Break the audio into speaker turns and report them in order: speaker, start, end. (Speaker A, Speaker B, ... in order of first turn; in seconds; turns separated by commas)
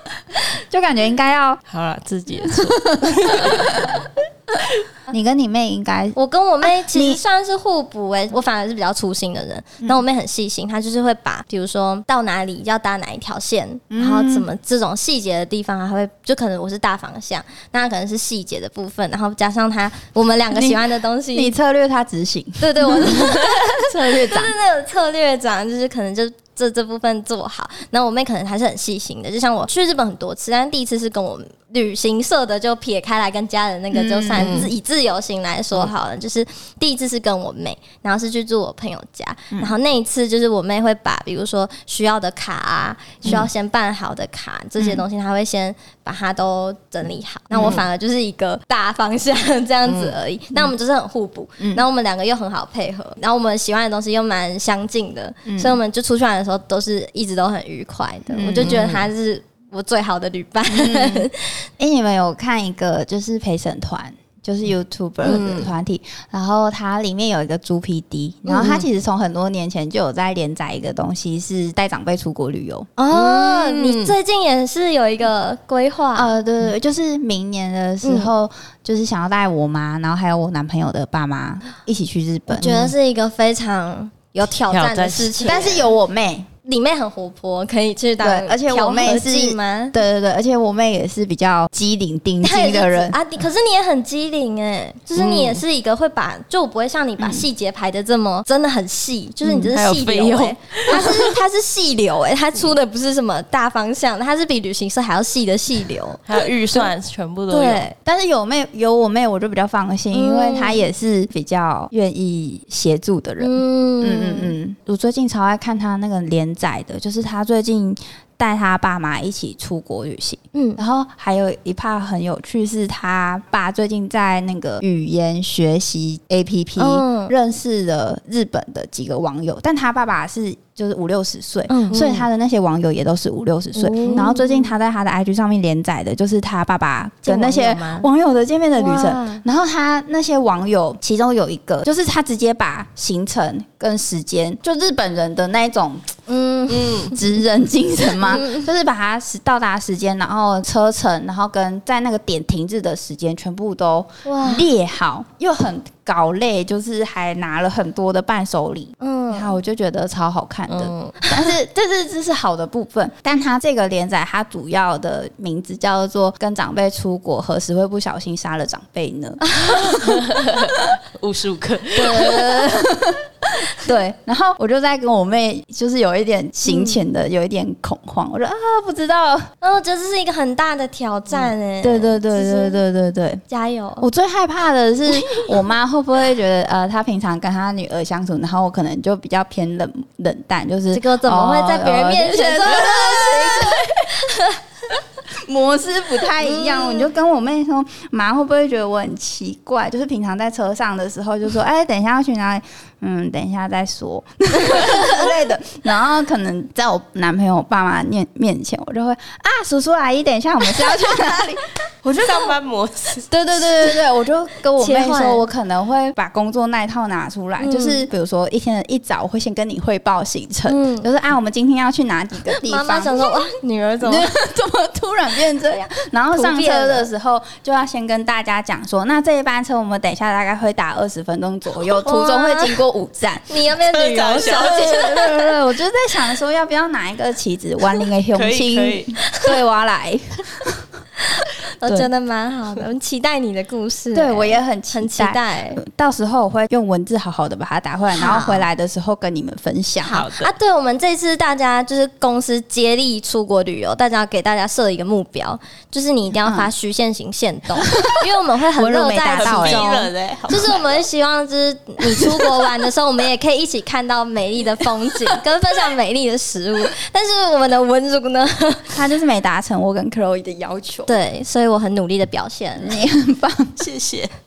Speaker A: 0.7-1.6, Speaker B: 1.7-4.0, Speaker A: 2.6-3.9, Speaker A: 5.1-6.2, Speaker C: 6.1-21.5, Speaker A: 6.8-7.2, Speaker A: 13.9-14.4, Speaker A: 20.5-24.5, Speaker C: 22.6-61.5, Speaker A: 33.9-34.7, Speaker B: 34.4-34.7, Speaker A: 39.5-39.8, Speaker A: 47.5-47.8, Speaker B: 49.9-50.1, Speaker A: 55.5-55.8, Speaker A: 58.3-58.8, Speaker B: 58.6-59.1, Speaker A: 60.7-72.9, Speaker B: 65.2-65.7, Speaker B: 68.5-68.9, Speaker C: 73.0-76.3, Speaker B: 73.1-74.1, Speaker A: 76.1-82.9, Speaker C: 78.0-78.3, Speaker C: 82.5-85.9, Speaker B: 84.6-85.6, Speaker A: 85.4-86.5, Speaker C: 86.6-90.0, Speaker A: 88.2-93.2, Speaker C: 92.4-106.2, Speaker B: 95.1-95.6, Speaker A: 97.2-97.5, Speaker B: 99.7-101.3, Speaker B: 106.2-107.9, Speaker C: 107.5-107.9, Speaker A: 108.0-146.2, Speaker C: 110.1-110.8, Speaker C: 113.4-114.5, Speaker C: 120.5-120.8, Speaker C: 126.8-127.3, Speaker C: 131.7-132.0, Speaker B: 131.9-132.2, Speaker C: 133.7-134.7, Speaker C: 137.2-138.1, Speaker C: 138.8-139.4, Speaker C: 146.3-147.1, Speaker B: 146.7-147.1, Speaker A: 147.1-170.2, Speaker C: 148.2-148.7, Speaker C: 154.2-154.7, Speaker C: 159.0-159.5, Speaker B: 160.7-161.2, Speaker C: 169.5-170.0, Speaker B: 169.8-172.9, Speaker A: 171.9-173.2, Speaker A: 173.8-179.5, Speaker C: 176.7-177.0, Speaker C: 179.6-182.8, Speaker A: 181.8-183.4, Speaker C: 183.5-184.1, Speaker A: 184.0-194.2, Speaker C: 190.9-194.6, Speaker A: 195.4-211.6, Speaker C: 196.4-197.1, Speaker B: 212.0-213.9, Speaker A: 213.3-223.3, Speaker C: 214.8-215.4, Speaker C: 217.6-218.1, Speaker C: 220.7-221.1, Speaker C: 222.6-224.3, Speaker A: 224.0-233.5, Speaker C: 226.3-227.1, Speaker C: 232.0-232.8, Speaker C: 233.5-235.1, Speaker B: 233.8-235.4, Speaker A: 234.5-240.8, Speaker B: 238.3-239.6, Speaker C: 241.3-245.8, Speaker A: 244.1-250.2, Speaker C: 248.1-248.7, Speaker C: 250.0-268.9, Speaker B: 250.0-250.5, Speaker A: 257.9-259.9, Speaker B: 259.3-261.0, Speaker A: 268.9-271.2, Speaker C: 271.1-273.0, Speaker A: 272.8-273.8, Speaker B: 273.8-274.3